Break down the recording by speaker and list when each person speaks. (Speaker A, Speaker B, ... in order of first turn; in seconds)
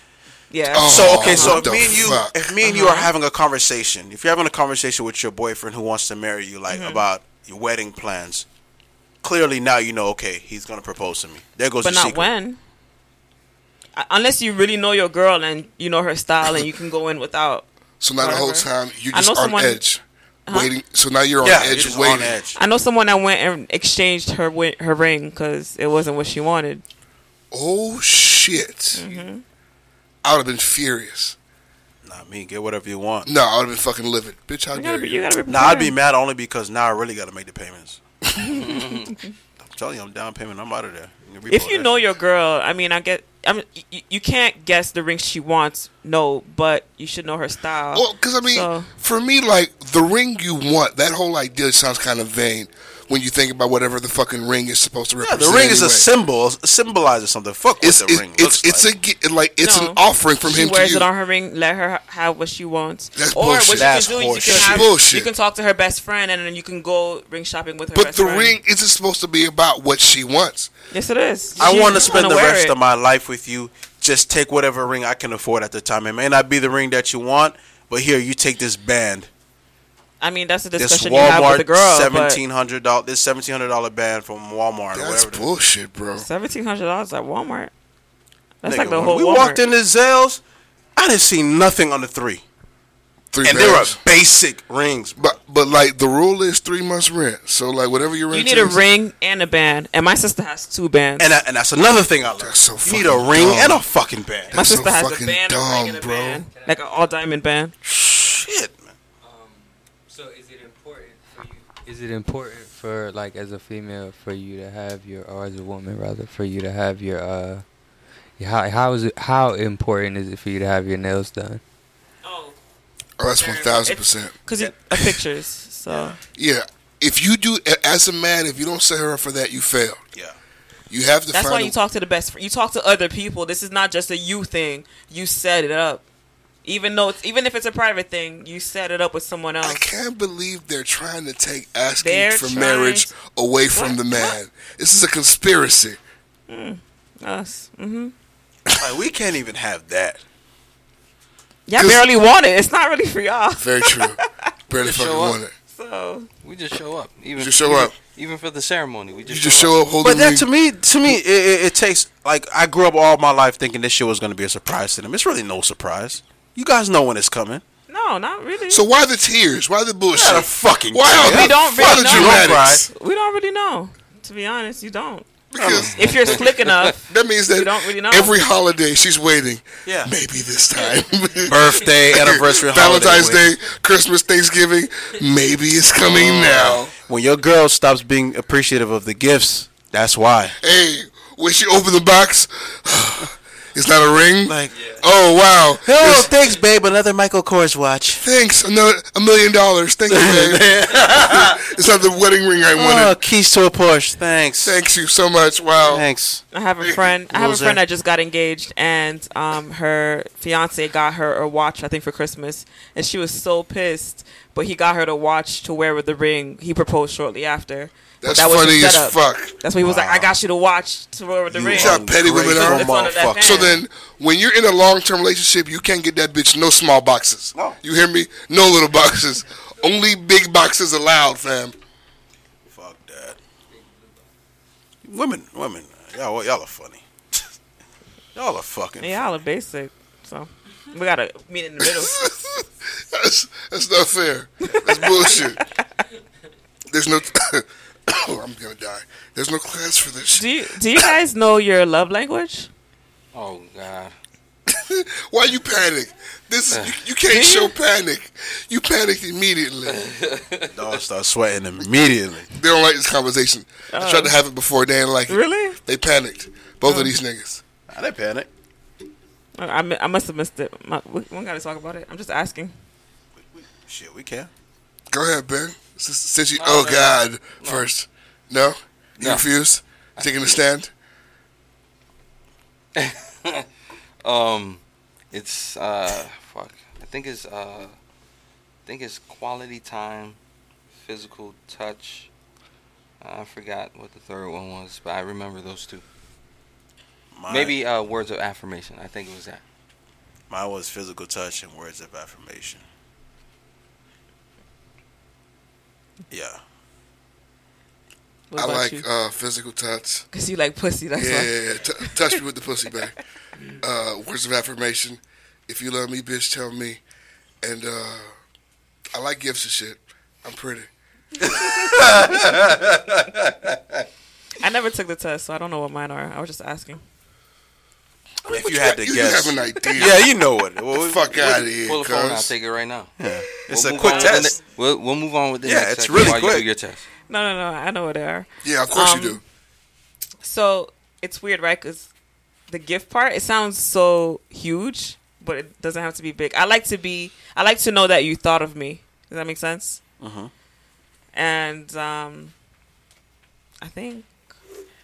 Speaker A: 0.5-1.8, 2.6-3.1, 6.7-7.0, 11.8-12.6, 14.0-17.6, 18.2-19.8, 20.5-20.7, 22.6-26.8, 28.9-29.4, 34.7-36.0, 38.4-39.1, 41.5-48.9, 59.6-68.5, 70.9-72.8, 80.2-82.4, 86.2-87.7, 88.6-89.6, 98.3-101.3, 104.5-107.7, 122.2-122.6, 123.4-126.2, 131.3-136.0, 136.7-139.9, 142.0-143.1, 143.7-144.4, 146.5-148.1, 151.7-154.2, 155.7-156.3, 167.9-168.8, 171.2-175.3, 175.9-178.4, 206.5-223.7, 239.0-242.2, 244.7-245.1, 250.3-252.7, 257.3-257.8, 263.9-264.4, 265.3-265.8, 266.9-267.1, 269.6-272.7, 308.5-309.1, 310.3-312.1, 324.6-327.0, 337.3-339.4, 340.4-342.1, 342.7-350.0, 351.3-352.5, 353.8-354.3
Speaker B: 0.7-2.5, 18.0-22.4, 27.5-29.0, 30.2-31.4, 33.2-35.3, 47.9-56.1, 57.8-61.1, 63.2-65.3, 67.9-70.7, 71.6-72.2, 84.9-86.3, 93.3-94.0, 95.2-98.8, 102.4-103.9, 104.5-106.5, 123.2-124.4, 126.3-130.0, 130.9-131.8, 139.6-146.0, 151.8-152.1, 153.6-155.5, 157.4-157.9, 159.3-160.5, 168.7-172.9, 175.5-176.3, 177.1-186.9, 190.6-196.3, 198.2-203.2, 204.6-206.1, 218.2-219.6, 221.7-231.8, 241.8-245.6, 246.9-251.1, 254.7-260.1, 262.5-267.6, 275.1-280.9, 308.6-310.3, 311.2-313.1, 313.8-317.0, 317.6-318.4, 319.1-320.9, 328.4-330.3, 330.9-332.5, 338.6-339.4
Speaker C: 0.8-8.5, 9.2-12.3, 21.4-22.6, 32.0-33.3, 35.5-38.0, 39.6-42.0, 55.2-58.9, 63.7-64.9, 71.6-79.3, 80.8-85.5, 88.7-90.4, 91.0-92.4, 93.4-95.4, 101.2-104.6, 107.8-109.0, 125.9-126.2, 148.8-150.2, 160.0-167.6, 170.1-172.9, 175.6-175.9, 179.9-180.1, 181.5-183.5, 186.0-190.6, 194.4-194.8, 195.8-198.2, 200.1-201.6, 202.8-204.8, 205.9-206.4, 207.3-207.8, 219.8-220.3, 221.5-223.8, 232.7-233.4, 235.1-237.0, 238.3-239.2, 260.7-262.5, 267.9-268.5, 273.4-274.5, 297.3-297.8, 300.5-302.9, 306.3-306.6, 321.4-323.4, 328.5-331.2, 333.2-334.6, 335.6-336.7, 350.2-350.5
Speaker D: 38.5-39.1, 154.8-155.4, 156.4-159.8, 253.3-254.1, 256.7-257.0, 259.9-260.7, 276.6-277.9, 279.2-279.5, 280.2-280.6, 283.0-283.7, 284.2-284.8, 285.3-288.0, 288.9-290.4, 291.0-292.3, 293.2-296.0, 297.5-299.6, 331.3-337.1
Speaker E: 106.5-107.1, 109.2-111.8, 194.7-195.0, 233.7-234.3
Speaker F: 111.9-117.6, 118.4-121.6